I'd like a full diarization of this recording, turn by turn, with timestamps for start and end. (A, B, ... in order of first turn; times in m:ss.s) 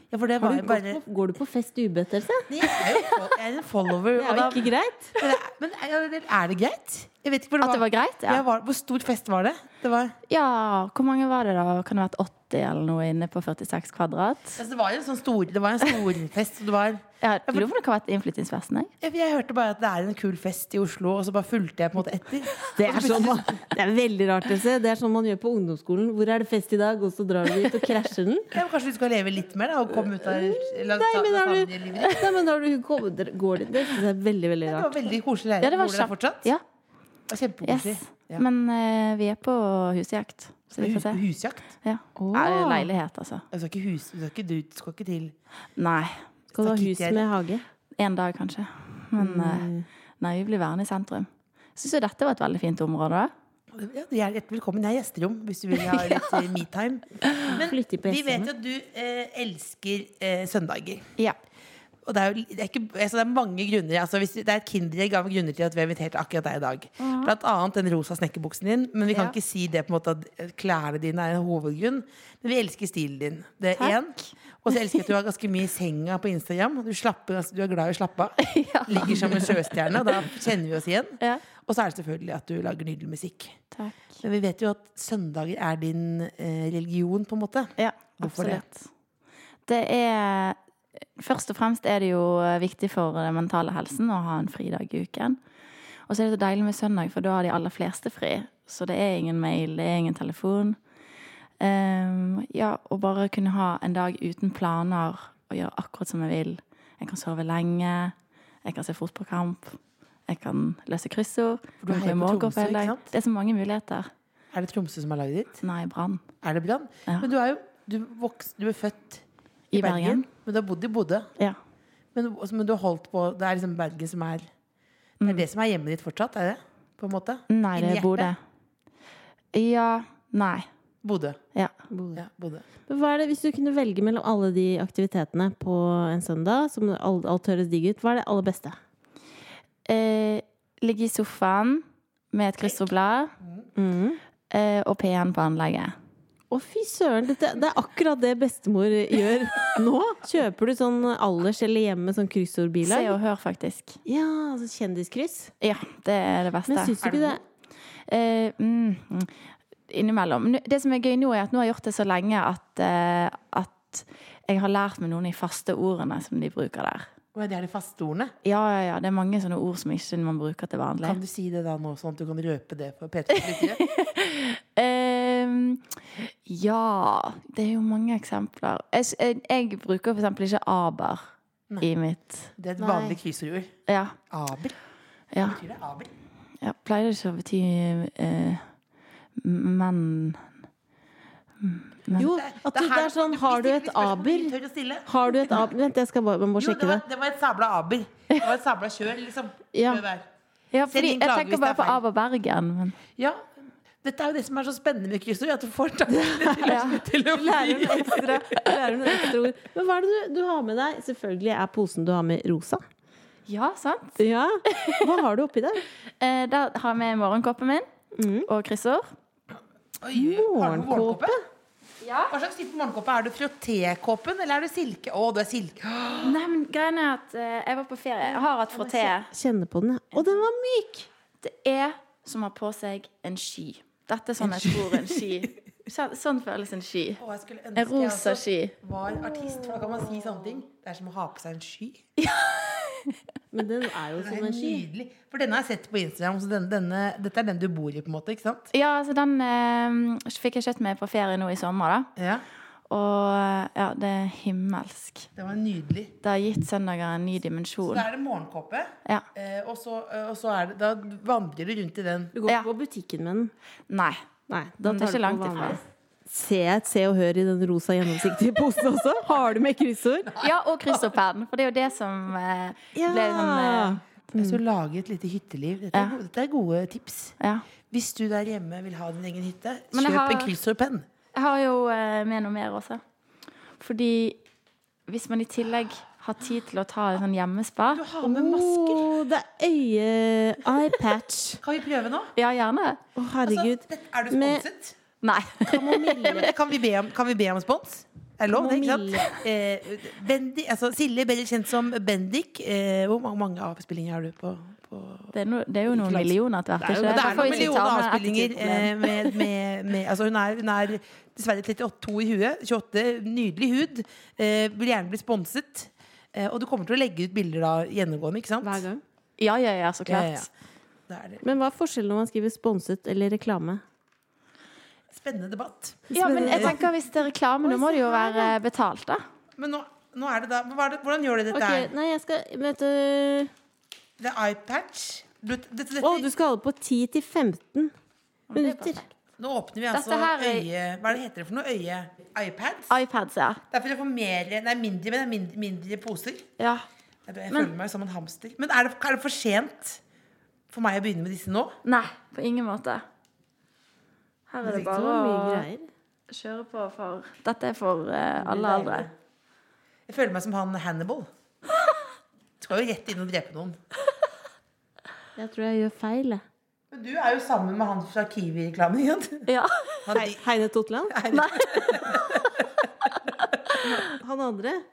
0:00.1-0:01.0 A
0:00.4-0:02.5 B
0:02.5-0:10.1 A
0:04.1-0:05.2 B
0:07.6-0:08.4 C
0:10.3-0:14.6 C
0:14.6-0:17.7 A
0:17.2-0:18.9 C
0:19.0-0:23.6 A
0:22.7-0:28.5 B
0:28.5-0:32.3 A
0:30.0-0:35.1 B
0:34.6-0:36.5 A
0:35.6-0:36.6 C
0:37.3-0:38.4 A
0:37.6-0:41.2 C
0:40.8-0:41.7 A
0:41.8-0:43.4 C
0:42.2-0:42.9 B
0:43.5-0:45.3 A
0:45.8-0:46.2 C
0:46.5-0:47.3 A
0:46.6-0:47.6 B
0:48.0-0:53.3 C
0:49.2-0:49.9 B
0:53.7-1:01.0 A
0:55.9-0:56.2 C
0:57.4-0:58.5 B
1:02.0-1:23.6 A
1:07.0-1:07.3 C
1:09.1-1:09.3 C
1:13.8-1:15.0 C
1:18.4-1:19.5 C
1:23.7-1:24.2 C
1:24.2-1:28.6 A
1:27.8-1:28.9 C
1:29.6-1:30.6 C
1:31.2-1:35.4 C
1:36.1-1:40.8 C
1:41.6-1:54.1 C
1:51.8-1:53.0 A
1:54.5-1:55.6 A
1:55.6-1:56.2 C
1:56.4-2:01.3 A
1:59.7-2:00.3 C
2:02.1-2:04.5 A
2:05.2-2:08.3 A
2:07.5-2:08.4 C
2:09.5-2:10.7 C
2:11.0-2:11.4 A
2:11.9-2:12.2 B
2:12.1-2:12.6 A
2:12.9-2:18.8 B
2:19.8-2:23.3 C
2:23.4-2:23.7 A
2:23.8-2:24.2 B
2:24.5-2:25.9 C
2:26.5-2:33.1 B
2:32.8-2:34.0 C
2:34.0-2:35.5 B
2:35.6-2:37.0 C
2:36.7-2:37.4 B
2:37.0-2:37.4 A
2:38.1-2:39.3 C
2:39.9-2:47.1 C
2:47.3-2:48.3 A
2:48.4-2:51.2 C
2:51.0-2:53.8 A
2:53.3-3:01.3 C
3:01.8-3:02.5 C
3:02.6-3:03.7 A
3:02.8-3:03.2 B
3:03.9-3:04.2 C
3:04.3-3:04.7 A
3:05.3-3:05.6 C
3:05.4-3:06.1 A
3:06.6-3:08.7 C
3:09.4-3:10.5 C
3:11.6-3:12.3 C
3:12.1-3:15.1 A
3:12.2-3:14.5 B
3:15.1-3:17.0 B
3:16.6-3:20.2 A
3:19.7-3:20.0 C
3:20.7-3:23.0 C
3:20.9-3:22.0 A
3:23.2-3:23.4 A
3:24.0-3:28.4 A
3:26.1-3:32.8 B
3:26.6-3:27.0 C
3:33.5-3:35.1 C
3:34.2-3:35.8 B
3:36.2-3:37.9 C
3:38.2-3:38.5 B
3:38.5-3:39.1 C
3:40.0-3:41.4 A
3:40.1-3:41.4 B
3:42.0-3:42.3 C
3:42.3-3:46.4 A
3:46.2-3:49.3 C
3:48.7-3:51.1 B
3:51.4-3:57.2 C
3:54.4-3:55.3 A
3:57.2-4:02.0 A
3:57.8-3:58.7 C
3:59.4-3:59.9 B
4:02.2-4:03.2 C
4:03.5-4:04.8 B
4:04.2-4:08.7 A
4:08.7-4:12.1 C
4:12.2-4:12.4 A
4:12.9-4:15.3 C
4:15.4-4:16.1 A
4:16.2-4:18.1 C
4:17.8-4:22.3 A
4:22.3-4:23.5 B
4:23.9-4:24.2 C
4:24.5-4:30.4 B
4:24.8-4:25.8 C
4:30.3-4:31.1 A
4:30.4-4:34.0 C
4:33.0-4:34.6 B
4:34.4-4:37.4 A
4:37.4-4:37.6 C
4:37.9-4:41.0 A
4:39.9-4:40.5 C
4:41.3-4:43.0 C
4:43.8-4:44.4 C
4:45.1-4:48.0 C
4:47.9-4:49.1 A
4:48.2-4:51.6 B
4:51.6-4:52.3 A
4:52.4-4:53.0 C
4:53.2-4:54.6 B
4:53.4-4:55.0 A
4:55.2-4:56.4 C
4:55.6-5:05.3 A
4:55.8-4:56.5 B
4:58.5-4:59.3 B
5:05.3-5:09.5 C
5:05.9-5:06.3 A
5:06.8-5:07.7 B
5:07.0-5:18.8 A
5:18.6-5:19.0 B
5:19.4-5:20.5 C
5:20.1-5:20.5 A
5:21.1-5:21.4 A
5:21.4-5:23.8 B
5:25.1-5:26.8 A
5:26.1-5:26.9 B
5:26.1-5:29.2 C
5:27.6-5:28.6 B
5:29.6-5:31.9 A
5:31.5-5:33.5 B
5:34.2-5:36.3 A
5:36.0-5:37.9 B
5:38.5-5:39.0 C
5:38.6-5:39.0 B
5:39.4-5:43.0 A
5:39.9-5:40.6 C
5:42.9-5:43.6 C
5:43.7-5:46.5 A
5:46.6-5:46.8 C
5:47.3-5:50.0 A
5:50.7-5:51.8 A
5:51.8-5:53.0 C
5:54.5-5:55.7 C
5:54.6-5:55.8 B
5:56.3-5:59.1 C
5:58.6-5:58.9 B
6:00.1-6:01.3 A
6:02.6-6:03.8 A
6:05.4-6:06.4 B
6:06.9-6:09.5 A
6:09.5-6:10.0 C
6:10.0-6:10.4 A
6:10.1-6:11.2 B
6:11.1-6:12.8 A
6:11.3-6:12.4 C
6:13.4-6:14.1 C
6:13.8-6:14.8 B